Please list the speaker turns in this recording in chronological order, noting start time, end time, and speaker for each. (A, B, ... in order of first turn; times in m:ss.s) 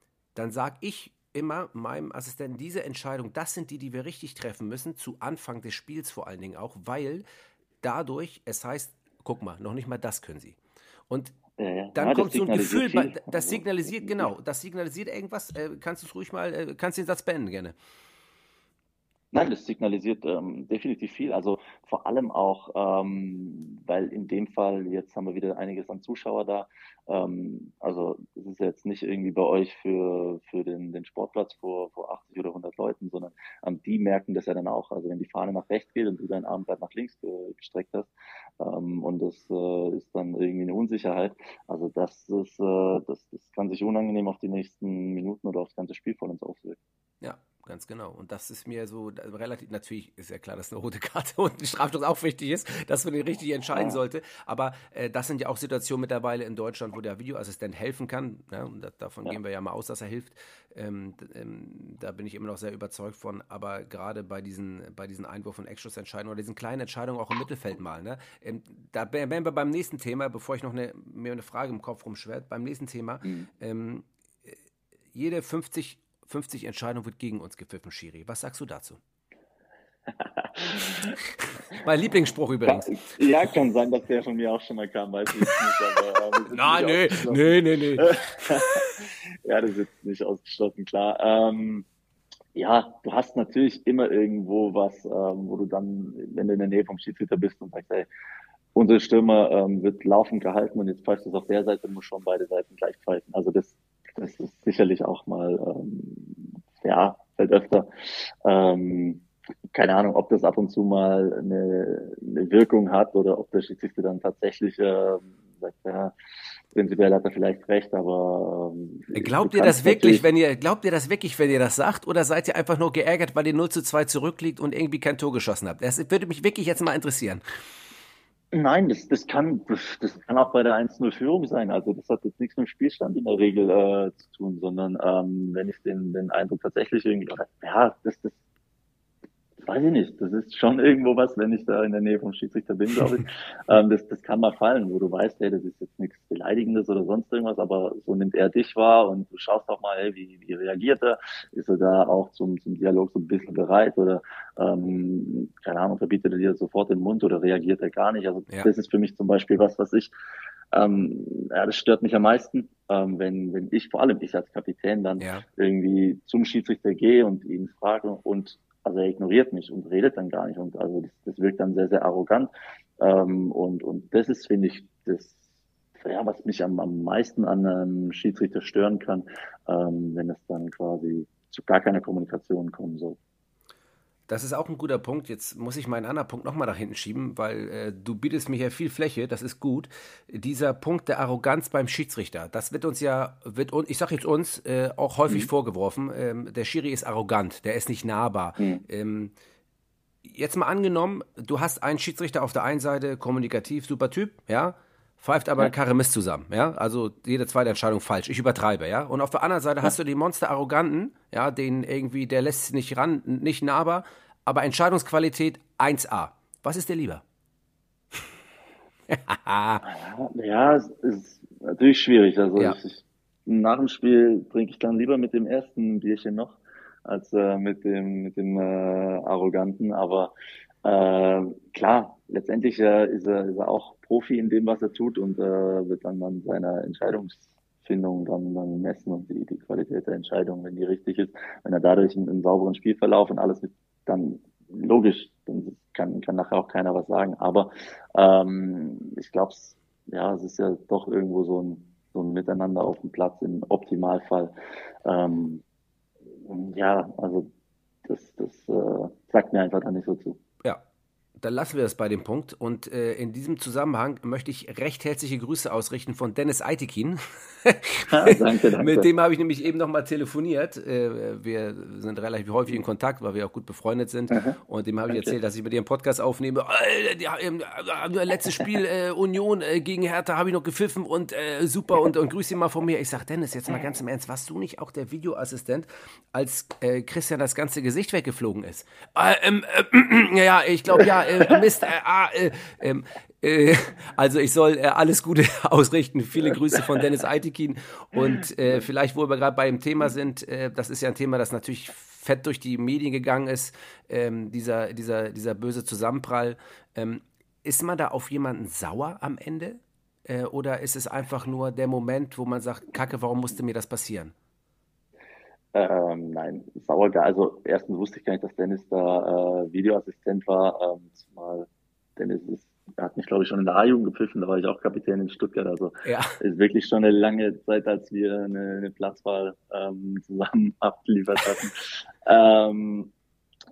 0:00.3-0:07.2 A
0:07.8-0:10.6 A
0:11.1-0:11.4 A
0:11.6-0:14.3 B
0:11.9-0:17.8 A
0:19.3-0:46.8 B
0:47.2-1:14.6 A
0:53.7-0:54.0 B
1:13.2-1:13.5 B
1:15.1-1:19.0 A
1:20.1-1:21.2 B
1:21.7-1:22.9 A
1:22.6-1:31.8 B
1:26.5-1:28.8 A
1:32.5-1:38.1 B
1:38.7-1:56.1 B
1:56.7-2:00.2 B
1:59.1-2:07.4 A
2:08.5-2:18.4 B
2:19.6-2:40.1 B
2:40.7-2:55.4 B
2:45.2-2:45.4 A
2:56.0-3:03.2 B
3:04.3-3:19.3 A
3:18.6-3:18.8 B
3:20.2-3:37.2 A
3:39.1-3:39.8 A
3:39.8-3:50.3 B
3:50.8-4:15.6 B
4:16.4-4:17.5 B
4:18.0-4:20.4 B
4:21.4-5:14.3 A
4:28.1-4:29.1 B
4:34.3-4:34.6 B
4:35.1-4:35.3 B
5:15.7-5:33.1 B
5:26.0-5:26.3 A